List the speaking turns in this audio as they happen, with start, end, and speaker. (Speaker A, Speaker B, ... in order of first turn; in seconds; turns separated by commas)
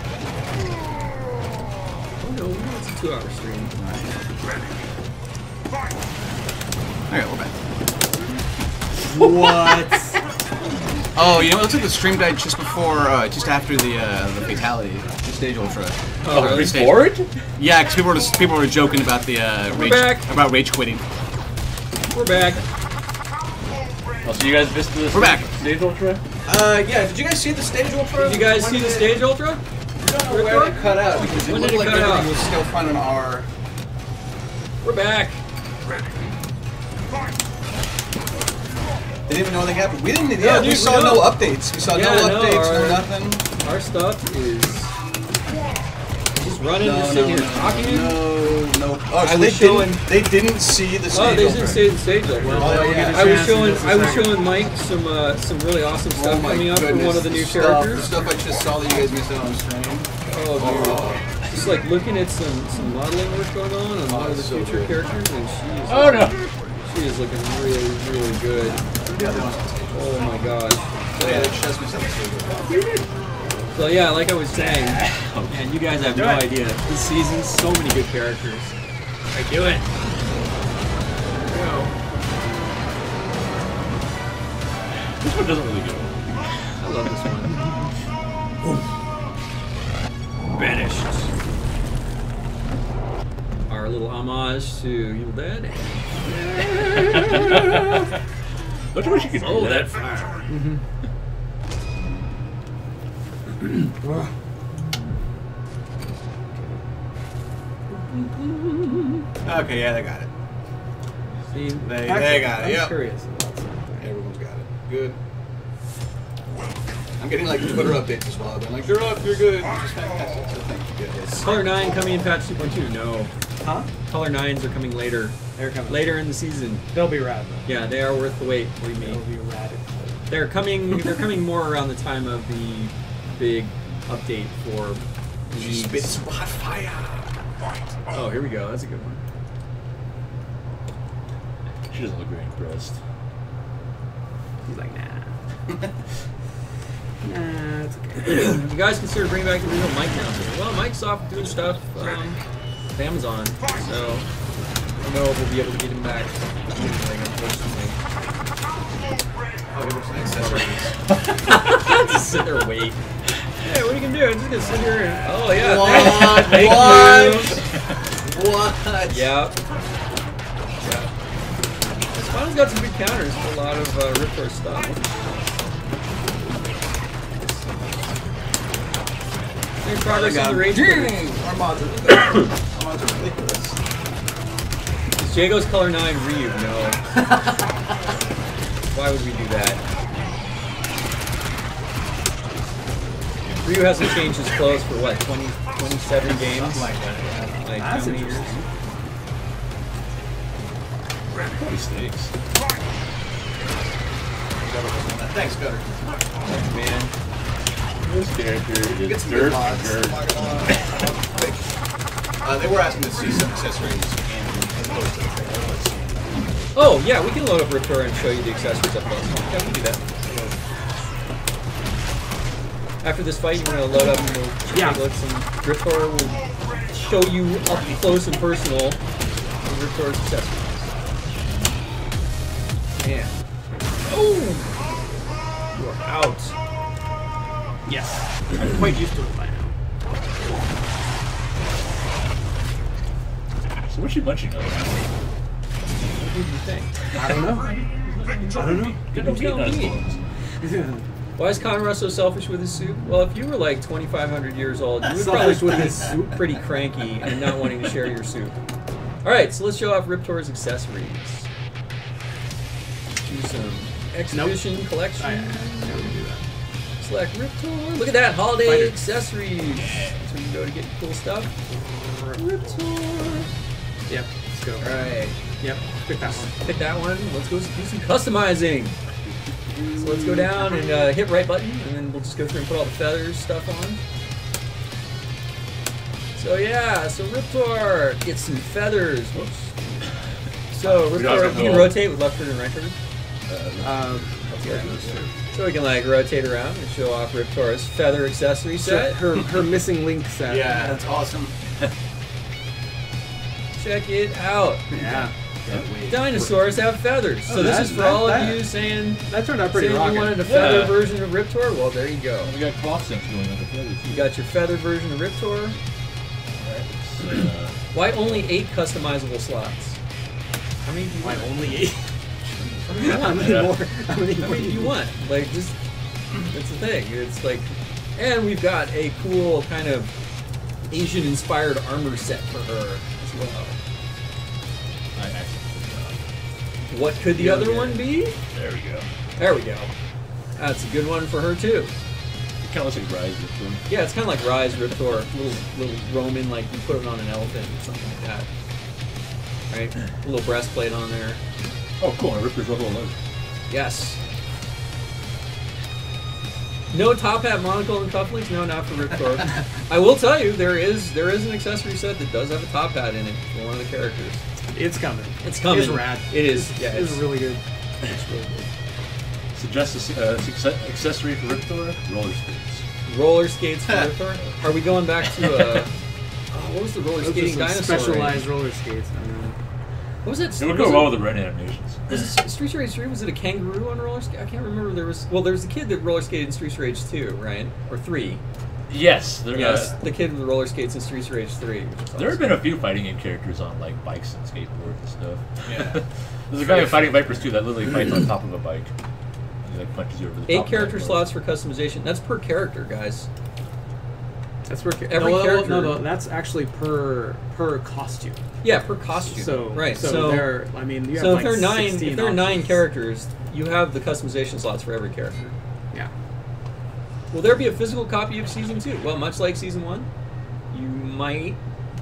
Speaker A: 2.2-3.7, Speaker B: 3.8-4.2, Speaker B: 7.1-7.6, Speaker C: 9.1-10.2, Speaker B: 11.2-21.0, Speaker A: 16.2-16.8, Speaker D: 16.3-17.3, Speaker A: 19.7-20.3, Speaker A: 22.1-22.6, Speaker D: 24.2-26.2, Speaker B: 25.1-25.5, Speaker B: 26.4-29.2, Speaker A: 28.2-29.6, Speaker B: 30.0-33.5, Speaker A: 30.2-32.3, Speaker A: 34.8-35.4, Speaker B: 39.3-43.4, Speaker A: 40.4-44.9, Speaker A: 46.3-48.2, Speaker B: 46.8-53.4, Speaker A: 49.1-50.0, Speaker A: 51.1-58.1, Speaker C: 52.4-54.4, Speaker B: 56.1-61.2, Speaker A: 60.3-68.8, Speaker B: 64.1-65.0, Speaker D: 65.9-66.5, Speaker B: 69.1-70.0, Speaker A: 69.9-71.6, Speaker B: 71.2-72.8, Speaker C: 72.7-73.0, Speaker A: 73.8-78.8, Speaker D: 74.5-75.7, Speaker C: 76.1-76.5, Speaker A: 79.3-79.8, Speaker A: 81.5-81.9, Speaker D: 85.2-86.6, Speaker A: 86.8-87.7, Speaker A: 90.5-91.3, Speaker A: 93.7-98.1, Speaker D: 97.0-98.0, Speaker D: 98.9-100.5, Speaker A: 99.4-100.1, Speaker C: 100.5-100.8, Speaker C: 103.8-104.3, Speaker C: 106.5-106.8, Speaker A: 107.9-109.2, Speaker B: 109.4-110.3, Speaker C: 111.5-114.1, Speaker B: 111.8-113.0, Speaker B: 114.0-115.2, Speaker B: 117.2-121.5, Speaker A: 121.3-123.3, Speaker C: 123.6-123.9, Speaker A: 124.1-126.9, Speaker C: 125.6-126.1, Speaker C: 126.9-127.7, Speaker A: 127.7-129.2, Speaker C: 128.9-130.2, Speaker A: 130.3-136.2, Speaker B: 135.6-137.3, Speaker A: 138.1-139.2, Speaker D: 141.9-143.0, Speaker C: 144.7-145.3, Speaker C: 147.2-148.6, Speaker A: 148.2-152.4, Speaker A: 152.9-154.3, Speaker A: 155.0-158.0, Speaker B: 159.7-161.0, Speaker A: 161.4-163.0, Speaker A: 163.6-167.6, Speaker B: 165.5-167.6, Speaker D: 165.9-166.9, Speaker B: 168.2-169.3, Speaker A: 169.1-169.6, Speaker A: 170.8-171.1, Speaker A: 172.1-175.1, Speaker A: 179.8-181.3, Speaker B: 180.0-183.8, Speaker A: 185.2-187.0, Speaker B: 187.2-187.6, Speaker A: 188.9-189.8, Speaker A: 193.6-196.9, Speaker B: 196.2-197.7, Speaker A: 197.6-198.6, Speaker C: 197.7-198.6, Speaker D: 201.5-202.3, Speaker B: 204.6-206.2, Speaker A: 206.4-207.1, Speaker D: 208.0-211.0, Speaker B: 209.0-211.6, Speaker B: 212.4-216.8, Speaker A: 216.7-220.1, Speaker A: 223.0-229.0, Speaker C: 224.7-225.0, Speaker A: 229.6-230.9, Speaker A: 233.0-233.3, Speaker A: 234.1-234.8, Speaker A: 235.8-236.5, Speaker C: 237.9-239.7, Speaker D: 243.9-245.0, Speaker A: 246.2-246.9, Speaker C: 247.1-247.7, Speaker D: 247.2-250.2, Speaker B: 247.2-247.6, Speaker C: 248.6-249.2, Speaker A: 249.1-250.0, Speaker C: 250.6-251.0, Speaker A: 251.4-258.6, Speaker C: 255.0-256.6, Speaker A: 259.2-261.5, Speaker A: 263.2-266.1, Speaker C: 264.3-266.4, Speaker A: 267.0-271.5, Speaker C: 268.6-269.0, Speaker B: 269.9-270.2, Speaker A: 272.4-273.5, Speaker C: 274.1-275.1, Speaker A: 274.8-275.4, Speaker C: 275.6-276.6, Speaker A: 276.4-278.9, Speaker A: 279.9-284.0, Speaker A: 286.4-290.0, Speaker A: 290.7-292.9, Speaker D: 290.9-292.0, Speaker D: 293.5-295.3, Speaker C: 293.8-295.3, Speaker A: 295.5-299.2, Speaker C: 298.8-301.0, Speaker B: 300.4-301.6, Speaker A: 303.8-304.8, Speaker B: 304.9-306.5, Speaker C: 304.9-305.3, Speaker A: 306.1-312.5, Speaker C: 307.5-308.7, Speaker B: 307.5-307.9, Speaker C: 309.2-310.8, Speaker D: 310.4-311.1, Speaker D: 312.4-314.2, Speaker A: 314.0-315.8, Speaker D: 316.6-318.5, Speaker A: 317.9-320.0, Speaker A: 320.8-321.7, Speaker C: 321.2-322.0, Speaker D: 322.8-323.7, Speaker A: 322.9-323.6, Speaker C: 322.9-324.9, Speaker A: 324.4-325.8, Speaker A: 326.4-330.1, Speaker A: 330.9-333.8, Speaker D: 335.1-336.2, Speaker A: 336.9-338.4, Speaker D: 337.4-339.1, Speaker A: 339.4-339.9, Speaker A: 340.6-341.9, Speaker D: 342.6-343.8, Speaker A: 343.9-348.5, Speaker A: 349.7-351.4, Speaker D: 352.0-353.1, Speaker A: 353.7-354.2, Speaker A: 356.9-364.4, Speaker C: 364.7-367.6, Speaker A: 365.4-367.3, Speaker A: 368.1-368.7, Speaker D: 369.5-372.8, Speaker A: 373.1-375.9, Speaker A: 376.5-378.5, Speaker C: 377.2-379.6, Speaker A: 380.2-381.2, Speaker D: 380.6-382.2, Speaker A: 382.1-388.4, Speaker D: 388.9-390.0, Speaker A: 389.5-392.5, Speaker D: 392.2-398.9, Speaker B: 395.7-396.0, Speaker A: 396.6-397.1, Speaker D: 399.6-401.3, Speaker A: 400.5-403.3, Speaker C: 404.6-408.4, Speaker A: 405.1-406.0, Speaker A: 408.6-415.5, Speaker C: 409.2-412.8, Speaker A: 417.3-420.1, Speaker A: 420.7-421.6